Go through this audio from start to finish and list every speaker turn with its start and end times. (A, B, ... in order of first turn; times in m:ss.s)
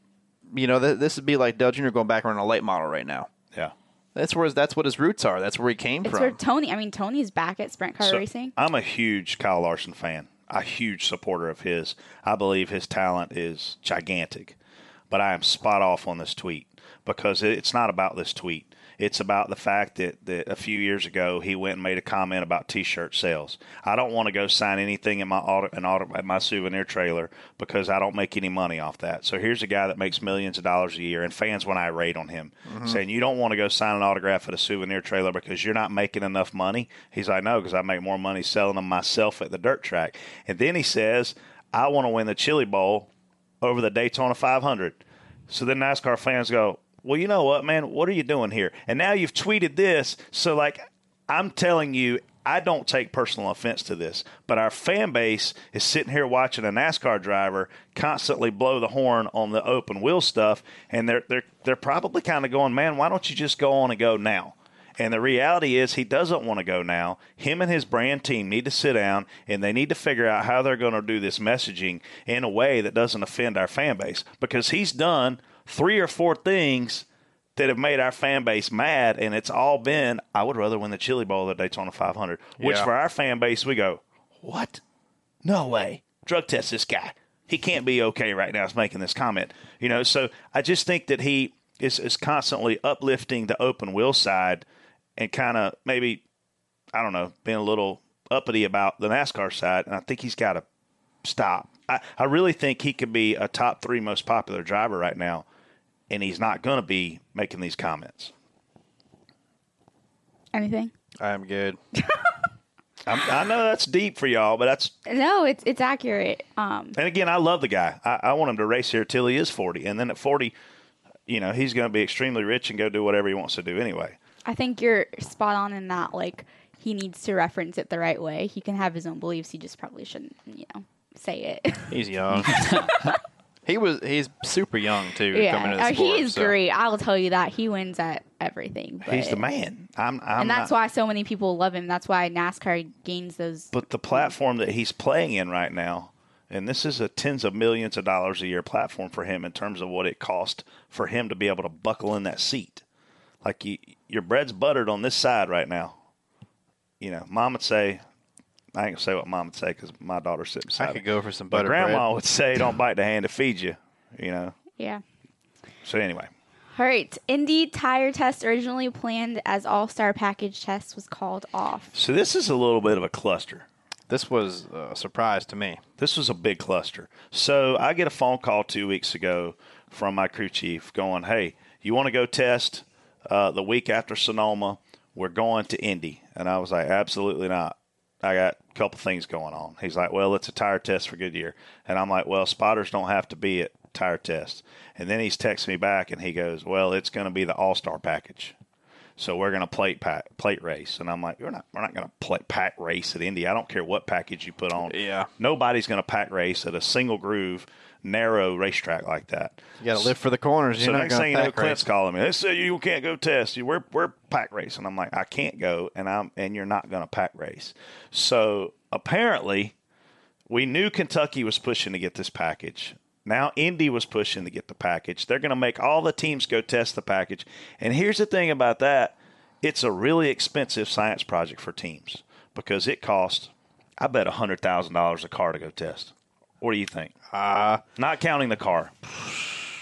0:00.5-0:03.3 A
0:04.1-0:06.4 A
0:06.0-0:08.5 B
0:08.0-0:14.5 C
0:15.1-0:43.1 C
0:32.7-0:33.0 A
0:43.6-1:17.0 C
1:17.6-1:24.8 C
1:22.6-1:22.9 A
1:25.4-1:34.6 C
1:35.2-1:36.2 C
1:36.9-1:40.6 C
1:41.2-1:45.4 C
1:46.1-1:48.3 C
1:50.5-1:50.9 B
1:51.2-1:51.8 A
1:53.0-1:54.9 C
1:55.0-1:57.0 B
1:57.0-2:00.5 C
2:01.3-2:04.2 C
2:04.4-2:12.0 B
2:11.9-2:12.6 A
2:12.5-2:13.2 B
2:13.6-2:16.5 A
2:15.3-2:19.4 B
2:19.0-2:20.7 C
2:20.4-2:24.3 B
2:23.7-2:32.8 C
2:33.4-2:35.9 C
2:37.0-2:38.0 C
2:38.7-2:44.5 C
2:40.8-2:42.0 A
2:44.8-2:45.0 B
2:45.8-2:46.3 C
2:46.7-2:51.9 B
2:51.9-2:53.6 C
2:54.1-2:55.8 A
2:56.0-3:18.5 C
3:19.2-3:30.1 C
3:24.8-3:25.3 A
3:29.8-3:31.8 A
3:30.8-3:39.7 C
3:40.5-3:57.1 C
3:57.3-3:57.8 A
3:58.0-3:58.9 C
3:59.2-3:59.6 A